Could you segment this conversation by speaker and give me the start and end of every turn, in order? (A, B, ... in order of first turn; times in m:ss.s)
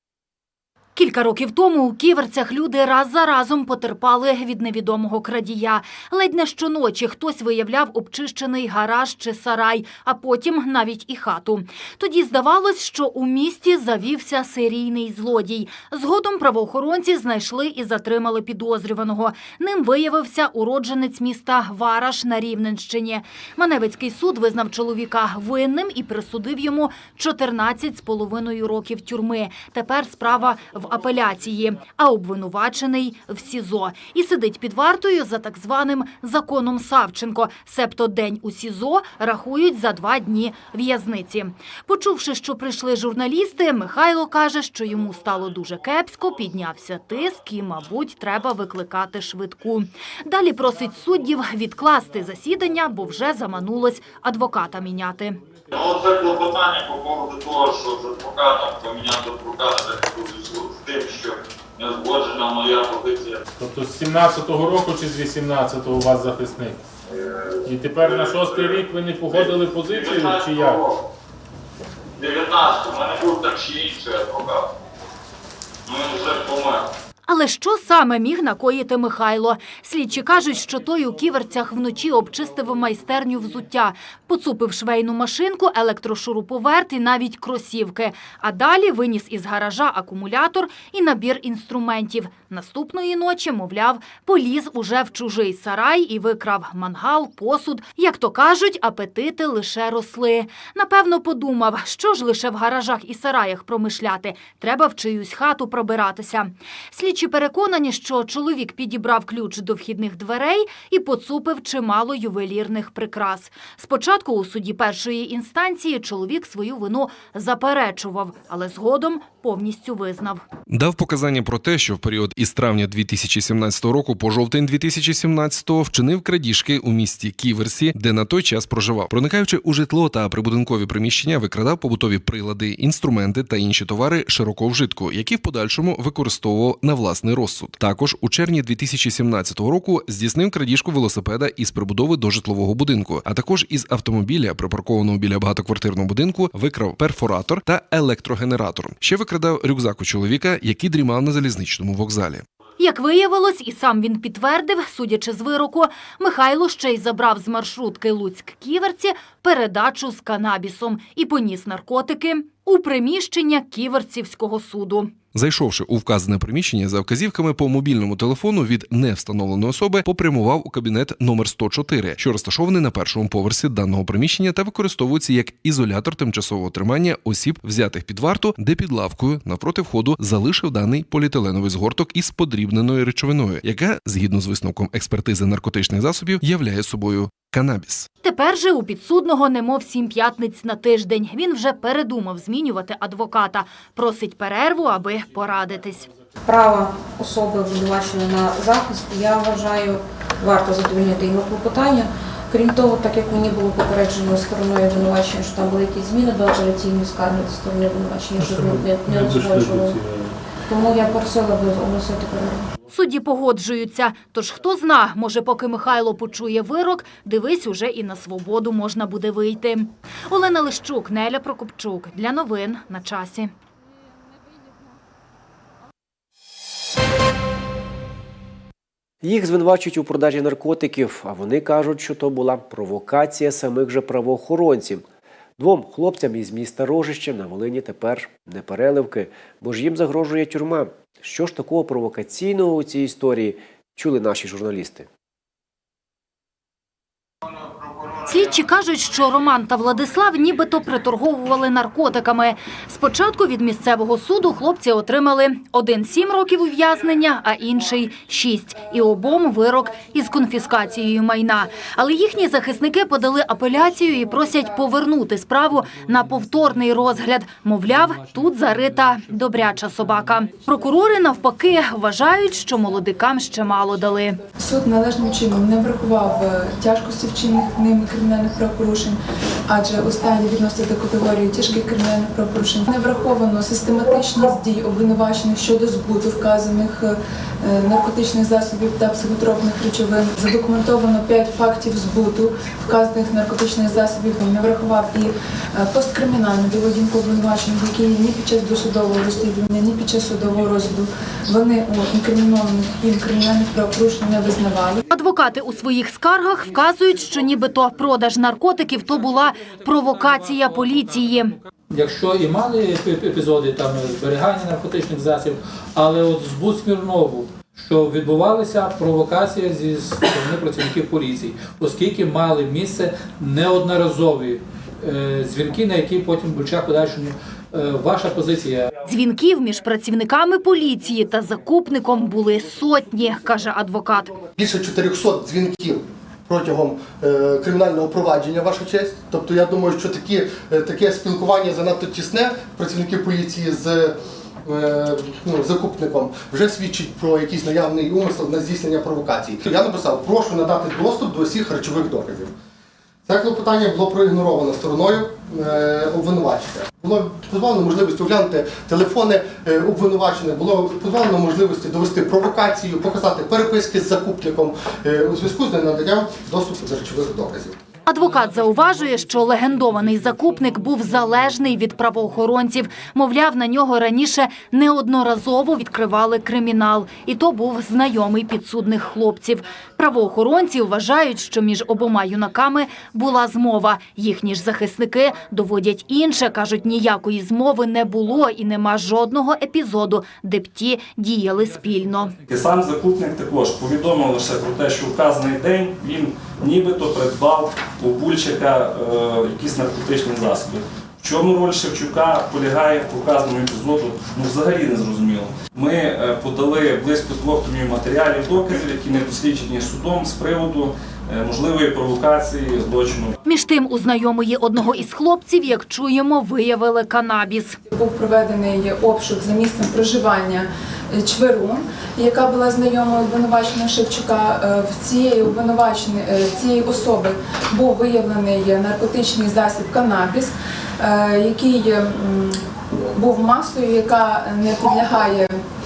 0:01.0-0:55.4 A
0:55.7-1:03.4 B
1:03.6-1:06.8 C
1:07.1-1:11.0 B
1:07.6-1:10.8 C
1:12.2-1:14.7 B
1:15.9-1:16.9 B
1:17.3-2:00.4 A
2:00.7-2:32.4 D
2:32.8-2:45.1 A
2:45.3-3:08.1 D
3:08.2-3:16.1 A
3:16.5-3:30.0 E
3:28.4-3:30.4 C
3:30.7-3:32.7 E
3:32.9-3:43.5 A
3:49.2-3:55.0 F
3:55.6-4:05.1 F
4:07.5-4:08.2 B
4:08.2-4:34.4 A
4:34.6-5:05.0 G
5:05.1-5:11.6 A
5:11.9-5:28.9 H
5:29.1-5:34.4 A
5:34.6-5:52.5 I
5:53.3-6:07.8 I
6:08.1-6:32.4 A
6:32.4-6:53.4 J
6:53.4-6:57.8 A
6:57.9-7:15.6 G